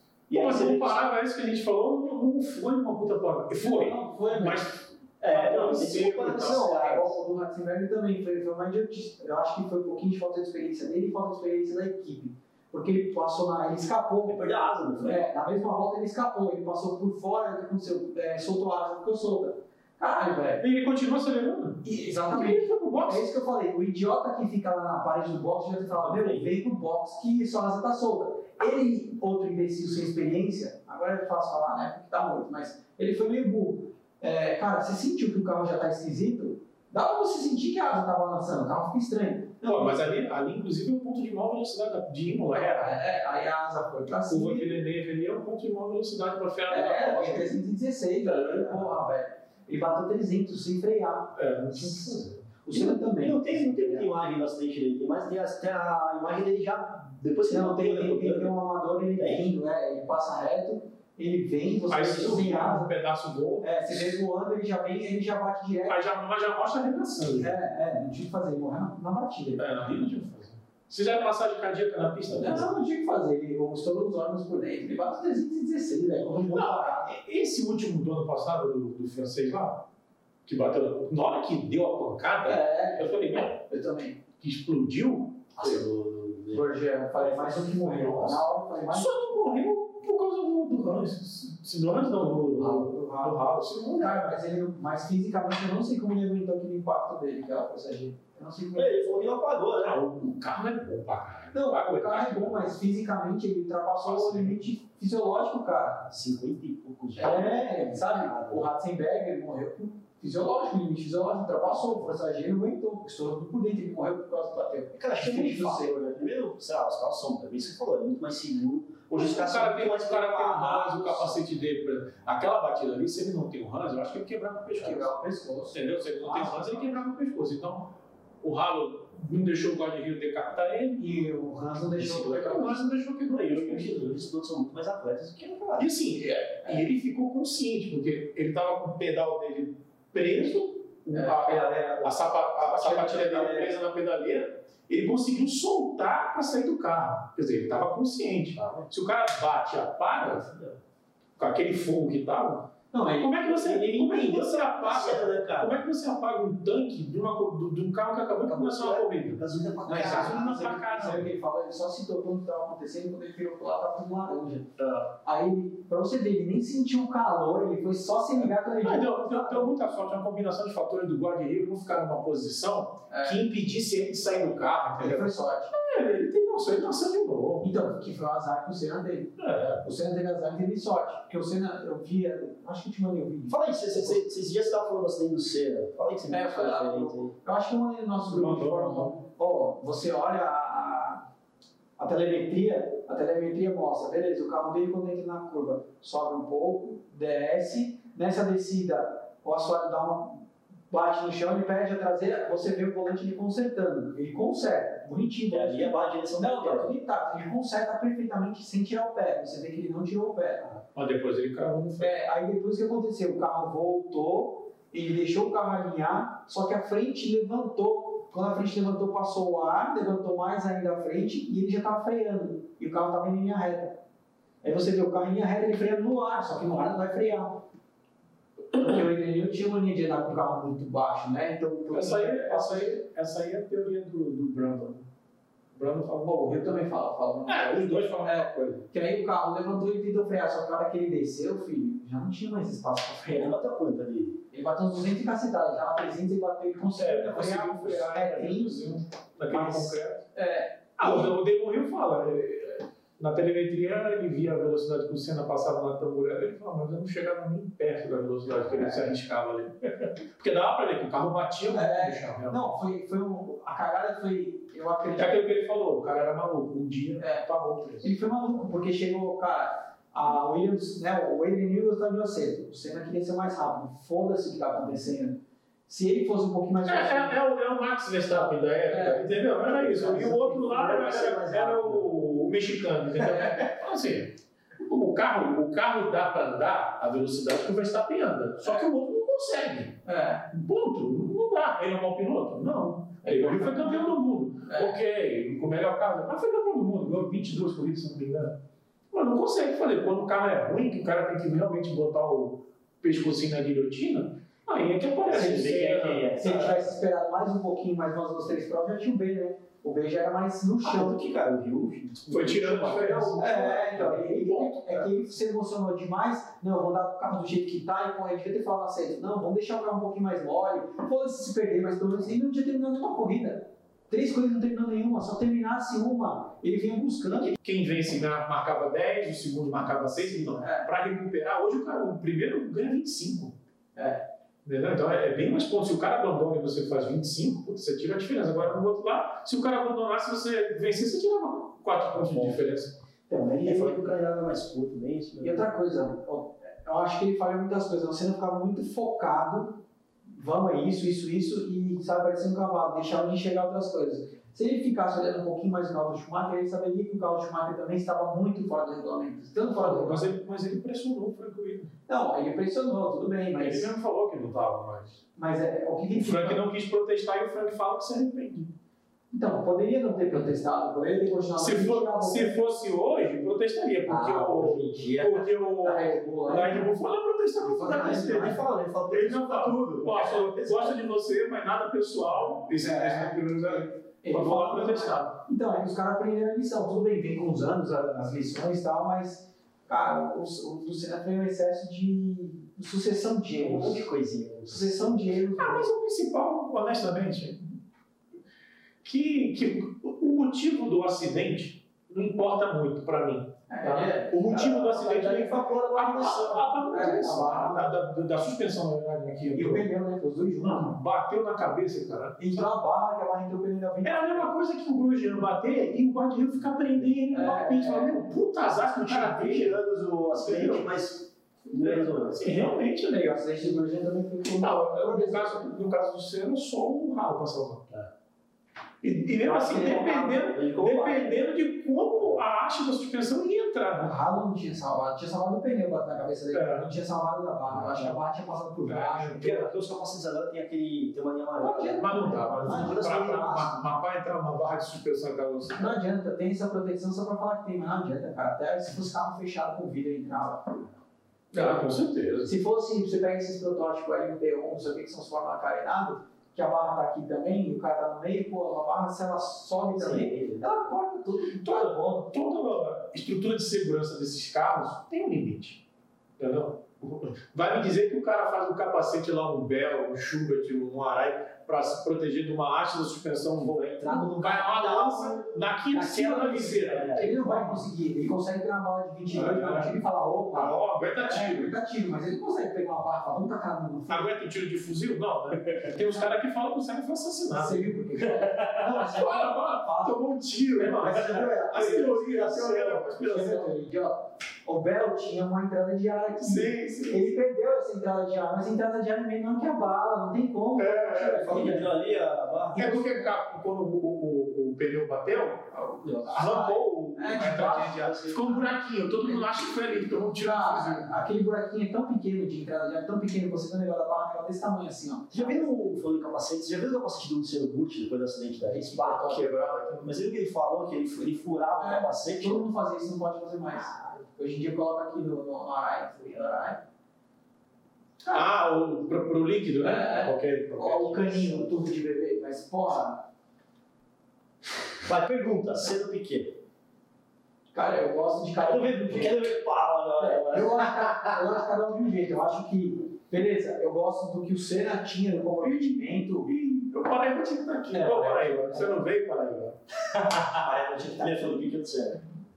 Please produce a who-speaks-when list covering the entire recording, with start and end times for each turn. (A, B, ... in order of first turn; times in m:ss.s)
0:00.3-0:01.0 A
0:00.3-0:06.7 B
0:03.6-0:04.7 C
0:05.2-0:07.2 A
0:06.2-0:14.4 C
0:14.3-0:15.2 A
0:15.0-0:20.6 C
0:20.6-0:23.3 B
0:21.8-0:40.1 C
0:26.1-0:26.4 A
0:39.7-0:43.0 B
0:42.5-0:44.7 C
0:44.3-0:47.6 B
0:46.7-0:54.1 C
0:48.5-0:48.8 B
0:51.4-0:52.5 B
0:52.7-0:58.6 A
0:57.5-1:02.9 C
0:59.2-0:59.5 A
1:01.9-1:04.2 B
1:03.6-1:06.0 C
1:05.9-1:07.6 B
1:07.3-1:10.0 C
1:09.6-1:12.7 B
1:12.3-1:17.1 C
1:16.3-1:19.8 B
1:20.5-1:23.6 B
1:22.4-1:24.2 C
1:24.4-1:25.8 B
1:25.6-1:26.9 A
1:26.5-1:29.2 C
1:27.3-1:34.4 B
1:32.4-1:33.4 C
1:34.0-1:39.2 C
1:38.8-1:40.0 A
1:39.8-1:42.8 B
1:41.5-1:46.1 C
1:44.0-1:44.6 B
1:46.1-1:48.7 A
1:47.2-1:56.2 C
1:54.9-2:01.5 A
1:59.1-2:05.2 B
2:04.8-2:07.0 C
2:05.7-2:11.1 B
2:11.0-2:12.9 C
2:12.0-2:14.2 B
2:13.3-2:15.9 A
2:15.8-2:30.5 B
2:21.1-2:23.8 C
2:30.2-2:30.8 A
2:31.4-2:41.3 B
2:32.9-2:33.7 C
2:33.5-2:35.8 A
2:38.4-2:40.7 A
2:39.8-2:44.7 C
2:44.8-2:45.1 B
2:45.2-2:49.8 C
2:48.8-2:57.7 B
2:53.1-2:53.5 C
2:55.0-2:55.7 C
2:57.6-3:04.3 C
2:59.4-2:59.9 B
3:03.5-3:07.3 A
3:06.3-3:11.2 C
3:08.3-3:09.2 B
3:12.0-3:30.8 C
3:25.5-3:26.9 A
3:30.9-3:32.3 B
3:32.0-3:44.0 C
3:44.6-3:47.6 C
3:48.7-3:53.0 C
3:51.9-3:55.1 B
3:55.7-3:56.5 B
3:56.2-4:03.6 C
3:57.5-3:58.9 B
4:03.3-4:04.4 A
4:04.5-4:08.9 C
4:07.0-4:10.2 B
4:09.5-4:11.4 C
4:11.0-4:22.8 B
4:18.6-4:19.1 C
4:21.7-4:25.4 C
4:25.2-4:28.3 B
4:27.2-4:27.5 C
4:28.0-4:37.4 C
4:36.8-4:50.0 B
4:38.3-4:39.4 C
4:39.6-4:42.1 A
4:43.2-4:43.7 C
4:50.0-4:50.5 C
4:50.5-4:58.6 B
4:53.2-4:55.0 C
4:59.1-5:06.3 B
5:05.2-5:06.9 A
5:05.4-5:11.2 C
5:10.8-5:13.4 A
5:12.3-5:15.1 B
5:13.4-5:27.6 C
5:27.6-5:33.5 B
5:30.2-5:30.9 C
5:34.0-5:34.2 C
5:34.6-5:43.0 B
5:42.2-5:42.7 A
5:43.3-5:44.1 C
5:43.6-5:45.8 A
5:45.4-6:00.3 C
5:59.8-6:01.9 B
6:02.1-6:03.9 C
6:03.6-6:05.2 B
6:05.4-6:06.6 C
6:06.1-6:08.7 B
6:09.3-6:12.6 C
6:11.6-6:25.3 B
6:14.1-6:14.8 C
6:14.4-6:15.5 A
6:15.8-6:16.9 C
6:17.6-6:18.6 C
6:17.9-6:21.0 A
6:22.7-6:34.1 C
6:33.6-6:35.4 A
6:34.7-6:35.9 C
6:35.6-6:37.8 B
6:39.0-6:49.9 B
6:43.7-6:44.8 C
6:44.4-6:46.7 A
6:46.9-6:48.0 C
6:49.5-6:51.0 C
6:50.6-6:52.7 B
6:52.4-6:54.5 C
6:54.0-6:59.8 B
6:57.3-6:58.2 C
6:59.1-7:02.7 A
7:00.4-7:00.9 B
7:01.7-7:03.3 B
7:03.1-7:05.7 C
7:04.6-7:07.9 B
7:09.0-7:14.1 B
7:09.4-7:11.5 A
7:14.0-7:19.7 C
7:16.5-7:16.9 B
7:18.8-7:19.6 B
7:19.4-7:23.4 A
7:21.6-7:23.7 C
7:22.0-7:26.0 B
7:25.8-7:30.9 C
7:31.5-7:42.1 C
7:31.5-7:32.5 B
7:40.0-7:40.8 A
7:41.6-7:45.8 B
7:46.4-7:57.8 B
7:53.7-8:04.3 C
7:56.9-7:57.6 A
7:59.3-8:00.0 B
8:00.5-8:01.7 B
8:04.1-8:13.7 B
8:07.5-8:10.2 C
8:10.8-8:21.9 C
8:11.1-8:13.0 A
8:16.3-8:17.3 B
8:20.8-8:21.8 B
8:21.3-8:22.8 A
8:22.8-8:23.3 C
8:22.8-8:25.7 B
8:25.7-8:28.1 C
8:26.2-8:31.1 B
8:27.6-8:28.7 A
8:30.4-8:35.8 C
8:35.3-8:39.3 A
8:38.7-8:39.4 C
8:39.1-8:40.2 B
8:40.0-8:42.6 A
8:41.8-8:46.8 C
8:48.3-8:51.6 B
8:49.8-8:53.2 C
8:55.0-8:56.6 A
8:57.7-8:59.4 C
8:58.6-9:01.3 A
9:00.2-9:06.5 C
9:05.6-9:09.8 B
9:07.9-9:09.0 C
9:10.5-9:11.6 C
9:10.6-9:12.2 A